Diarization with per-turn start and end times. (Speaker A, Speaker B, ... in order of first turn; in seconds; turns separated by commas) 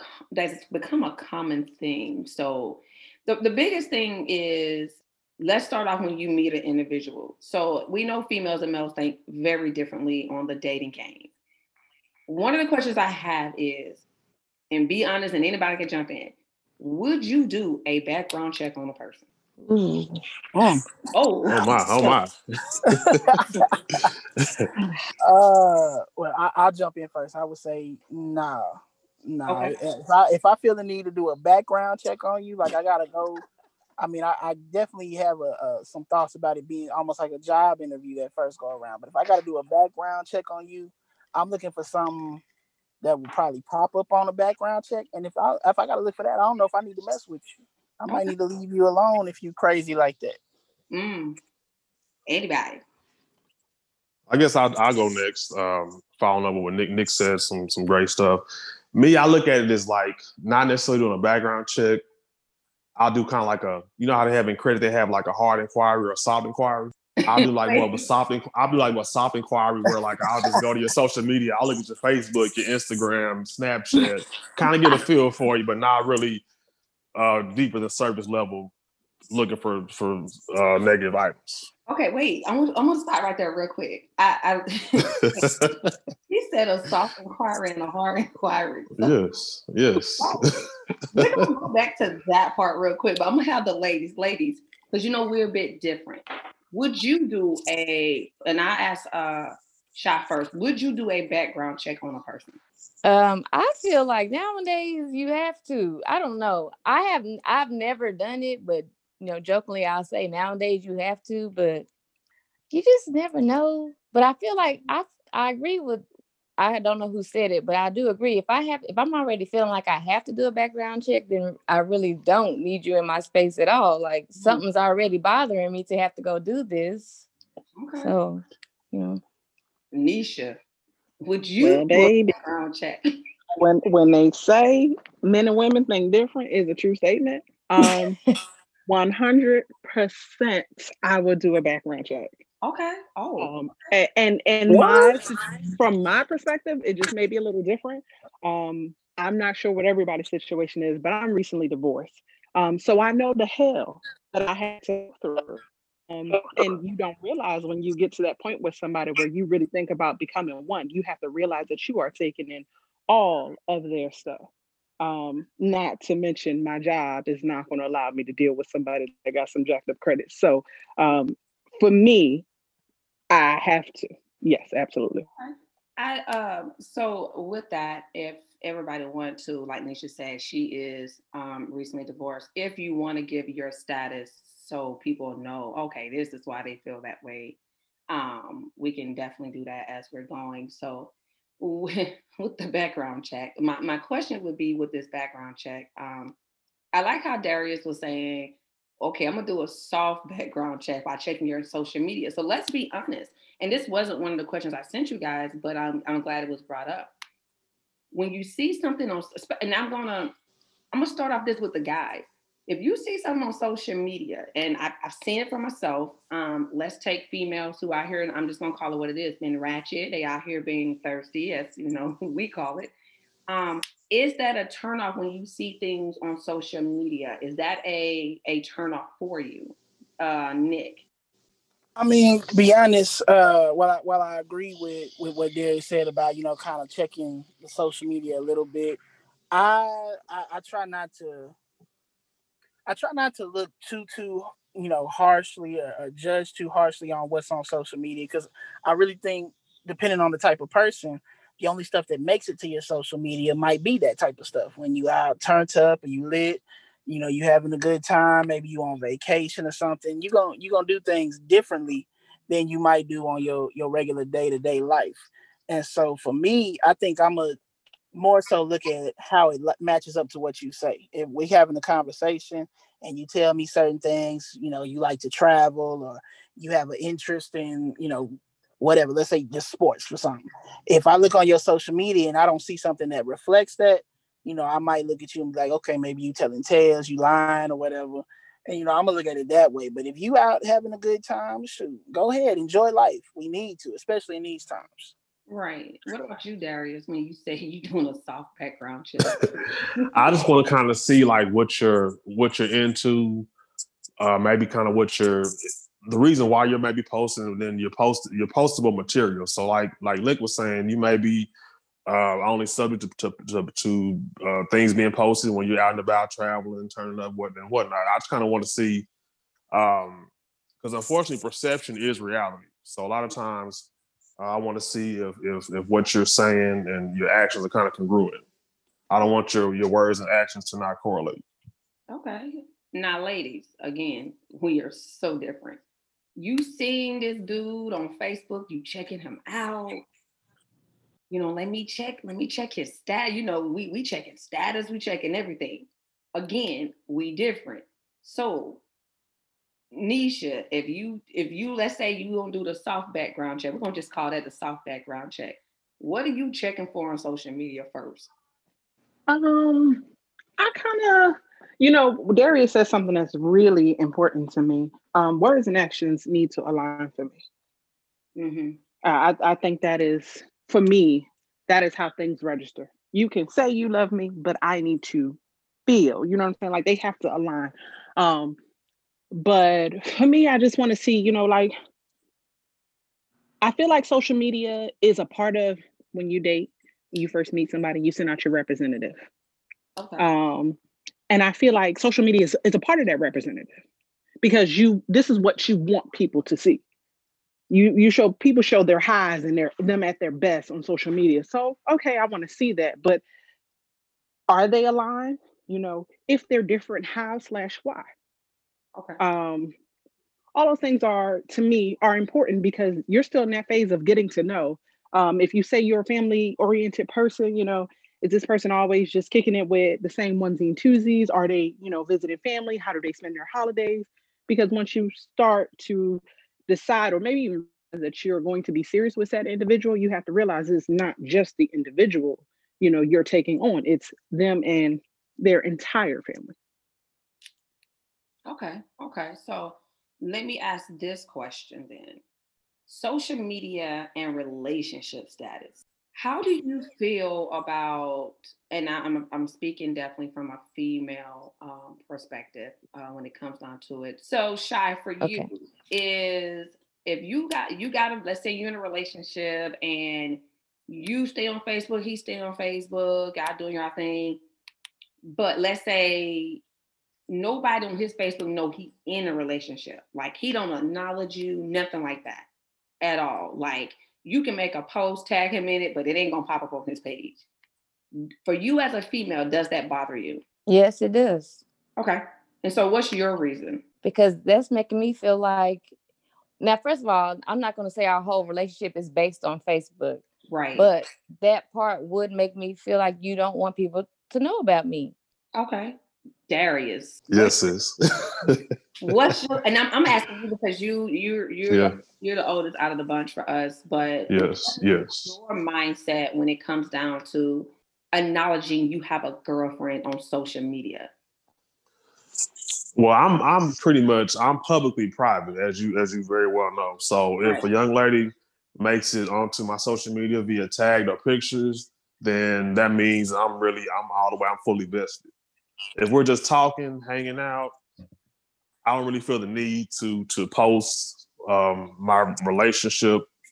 Speaker A: 0.3-11.3, Speaker A: 12.3-14.0, Speaker A: 14.7-19.2, Speaker B: 19.6-20.2, Speaker C: 20.5-20.8, Speaker A: 21.1-22.1, Speaker D: 21.5-23.4, Speaker C: 22.9-23.6, Speaker C: 25.2-33.4, Speaker A: 29.5-29.8, Speaker C: 34.0-42.4, Speaker C: 43.0-50.4, Speaker A: 50.9-51.4, Speaker A: 52.3-52.8, Speaker D: 54.3-58.4, Speaker D: 58.9-62.0, Speaker D: 63.0-76.4, Speaker A: 67.2-68.0, Speaker D: 77.1-78.7, Speaker D: 79.3-81.7, Speaker A: 81.9-85.6, Speaker D: 85.0-85.7, Speaker A: 86.3-89.1, Speaker D: 89.0-90.5, Speaker A: 90.2-90.6, Speaker A: 91.1-102.6, Speaker B: 103.0-111.8, Speaker B: 112.7-116.0, Speaker B: 116.6-127.3, Speaker A: 124.4-124.6, Speaker A: 127.8-128.1, Speaker B: 128.0-129.2, Speaker A: 129.9-130.6, Speaker A: 131.2-133.0, Speaker E: 131.6-132.3, Speaker E: 133.6-138.2, Speaker B: 137.8-138.1, Speaker E: 138.8-142.3, Speaker A: 142.6-143.5, Speaker E: 143.4-164.5, Speaker E: 165.0-172.4, Speaker E: 173.3-175.3, Speaker A: 175.4-187.6, Speaker A: 188.1-196.3, Speaker A: 196.9-207.1, Speaker A: 208.1-210.3, Speaker A: 210.9-222.9, Speaker A: 223.5-231.0, Speaker C: 231.9-239.0, Speaker C: 239.5-241.5, Speaker C: 242.8-267.6, Speaker C: 268.1-295.1, Speaker A: 295.5-299.4, Speaker A: 300.0-300.3, Speaker D: 300.1-303.5, Speaker D: 304.2-305.5, Speaker D: 306.1-311.5, Speaker D: 312.1-319.1, Speaker D: 319.7-320.3, Speaker D: 320.8-328.4, Speaker D: 329.1-331.4, Speaker A: 332.1-335.8, Speaker A: 336.4-340.0, Speaker A: 341.3-348.8, Speaker A: 349.9-358.3, Speaker E: 359.3-360.0, Speaker E: 360.6-367.4, Speaker A: 368.4-368.8, Speaker E: 369.0-378.6, Speaker E: 379.3-381.7, Speaker E: 383.6-389.2, Speaker A: 390.0-390.3, Speaker E: 390.2-390.8, Speaker E: 391.3-393.7, Speaker E: 394.4-396.8, Speaker E: 397.7-403.2, Speaker E: 404.5-408.1, Speaker A: 408.9-409.2, Speaker E: 409.2-409.7, Speaker E: 410.5-436.5, Speaker A: 438.4-442.2, Speaker A: 442.9-464.4, Speaker B: 455.2-455.5, Speaker A: 465.2-466.6, Speaker A: 467.3-472.5, Speaker A: 473.0-477.4, Speaker A: 478.4-480.4, Speaker B: 480.7-481.6, Speaker A: 482.0-483.8, Speaker B: 484.0-485.9, Speaker B: 486.6-490.2, Speaker A: 490.5-490.9, Speaker B: 490.8-495.1, Speaker A: 495.5-495.9, Speaker A: 496.5-497.6, Speaker D: 497.3-498.6, Speaker A: 499.0-511.1, Speaker D: 501.7-501.9, Speaker D: 504.3-505.4, Speaker D: 513.0-525.2, Speaker D: 526.0-527.7, Speaker D: 528.8-533.3